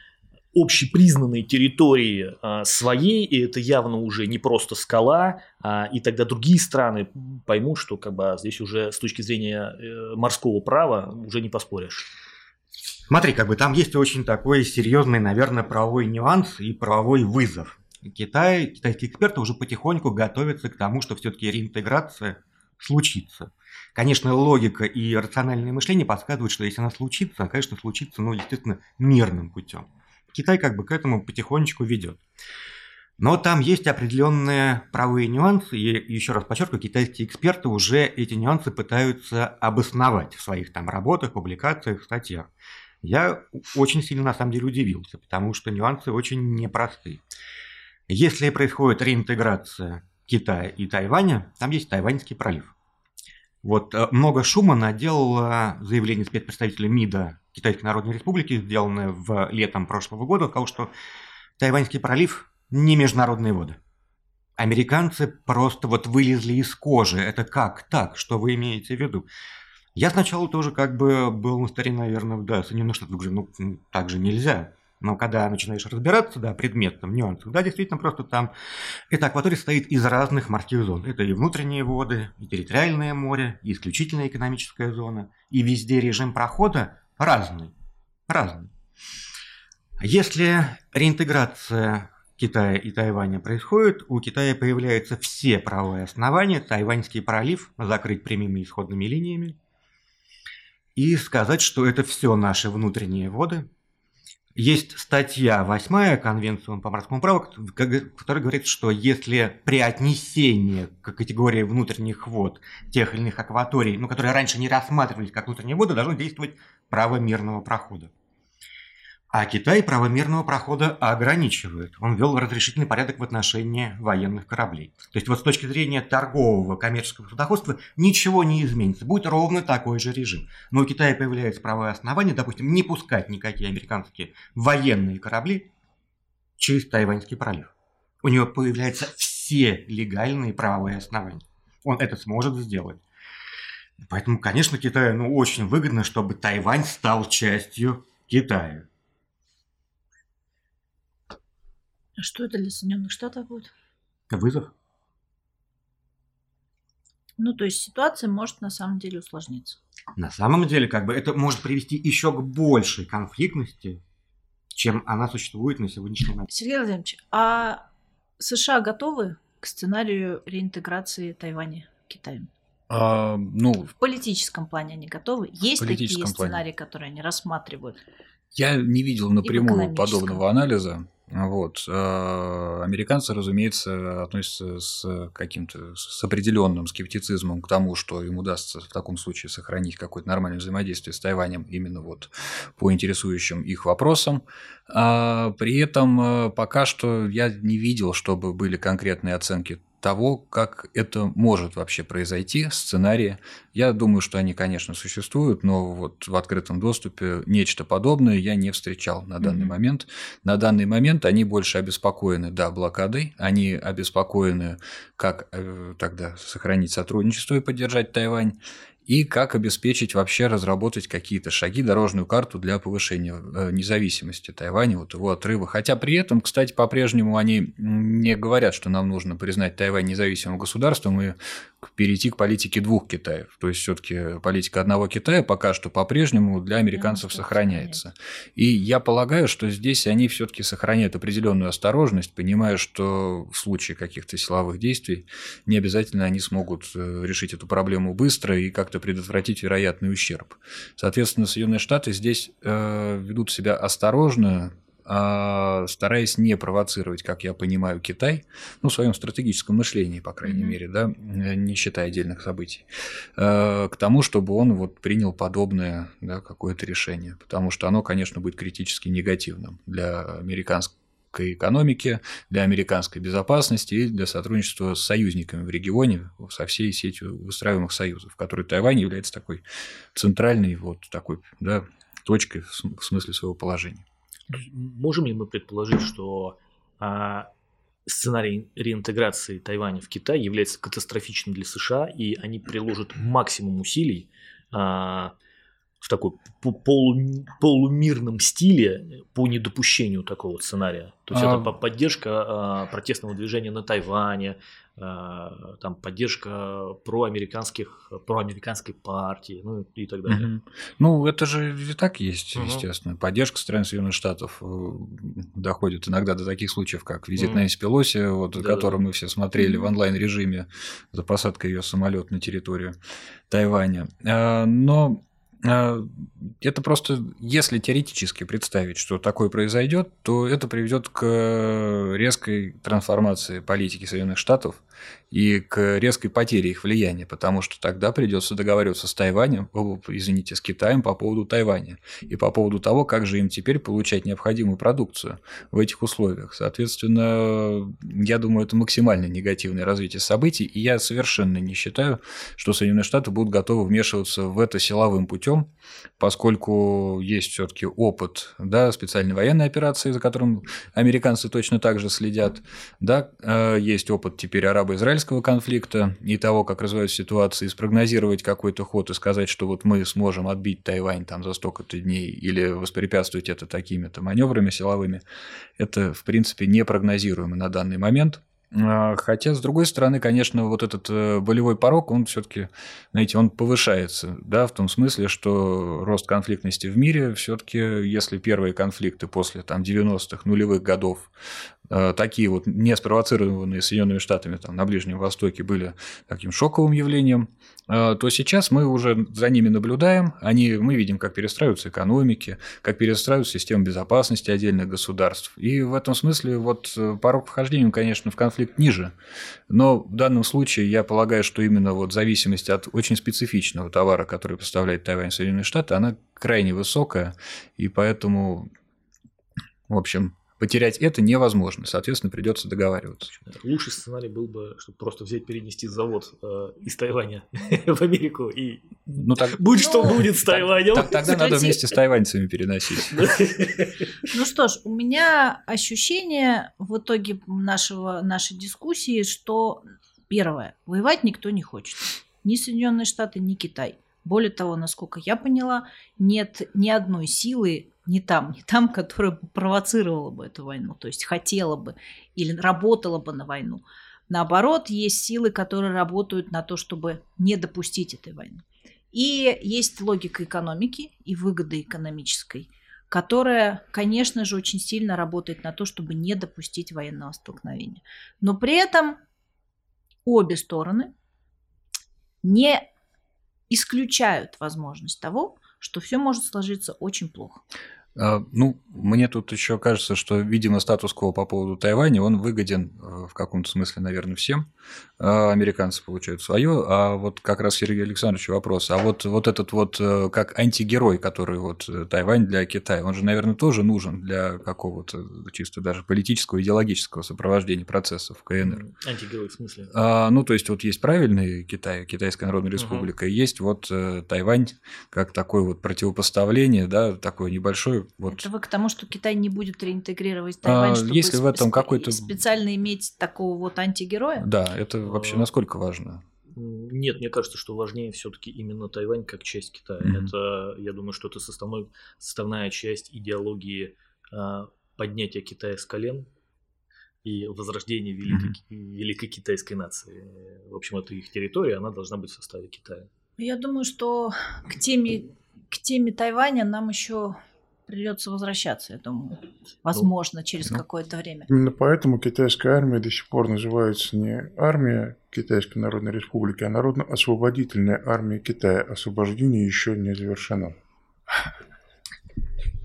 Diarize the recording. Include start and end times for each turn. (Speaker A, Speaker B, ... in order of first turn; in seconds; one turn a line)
Speaker A: 0.5-12.1
Speaker B: 13.1-32.2
Speaker B: 33.2-42.5
Speaker B: 43.0-47.2
Speaker B: 48.1-52.7
Speaker B: 53.6-60.9
Speaker B: 61.6-63.8
Speaker B: 64.6-69.2
Speaker B: 69.9-78.5
Speaker B: 79.1-87.7
Speaker B: 88.3-88.7
Speaker B: 90.0-99.6
Speaker B: 100.9-103.7
Speaker B: 104.5-118.1
Speaker B: 119.3-135.7
Speaker B: 136.6-143.0
Speaker B: 144.0-148.9
Speaker C: 152.2-153.7
Speaker B: 154.3-154.7
Speaker C: 157.4-159.8
Speaker B: 160.2-164.0
Speaker B: 164.7-166.4
Speaker C: 166.5-167.9
Speaker C: 168.4-172.5
Speaker D: 172.9-173.9
Speaker C: 173.9-178.0
Speaker D: 175.8-176.6
Speaker D: 178.5-284.0
Speaker C: 179.4-180.4
Speaker C: 209.4-209.7
Speaker C: 236.9-238.0
Speaker C: 260.4-260.8
Speaker A: 284.5-287.5
Speaker A: 288.1-295.3
Speaker A: 296.0-310.5
Speaker D: 301.3-301.7
Speaker D: 310.3-322.9
Speaker A: 312.5-312.8
Speaker A: 317.4-317.6
Speaker A: 318.5-319.0
Speaker C: 319.6-319.9
Speaker D: 323.5-375.2
Speaker D: 375.8-391.3
Speaker D: 391.9-409.1
Speaker D: 409.7-418.7
Speaker D: 419.9-423.3
Speaker A: 423.3-431.4
Speaker D: 429.1-433.2
Speaker C: 429.8-430.1
Speaker C: 431.1-431.9
Speaker A: 433.1-434.0
Speaker C: 434.3-469.2
Speaker C: 470.2-471.1
Speaker C: 472.4-472.9
Speaker C: 473.7-477.6
Speaker D: 478.1-484.7
Speaker D: 485.2-498.8
Speaker A: 498.6-500.0
Speaker D: 499.9-508.5
Speaker A: 502.8-503.1
Speaker C: 508.3-514.5
Speaker D: 510.6-512.4
Speaker D: 514.4-516.2
Speaker A: 515.0-515.5
Speaker A: 516.5-526.3
Speaker D: 520.0-520.3
Speaker A: 527.2-533.1
Speaker D: 528.3-528.5
Speaker C: 533.4-541.5
Speaker E: 541.5-550.8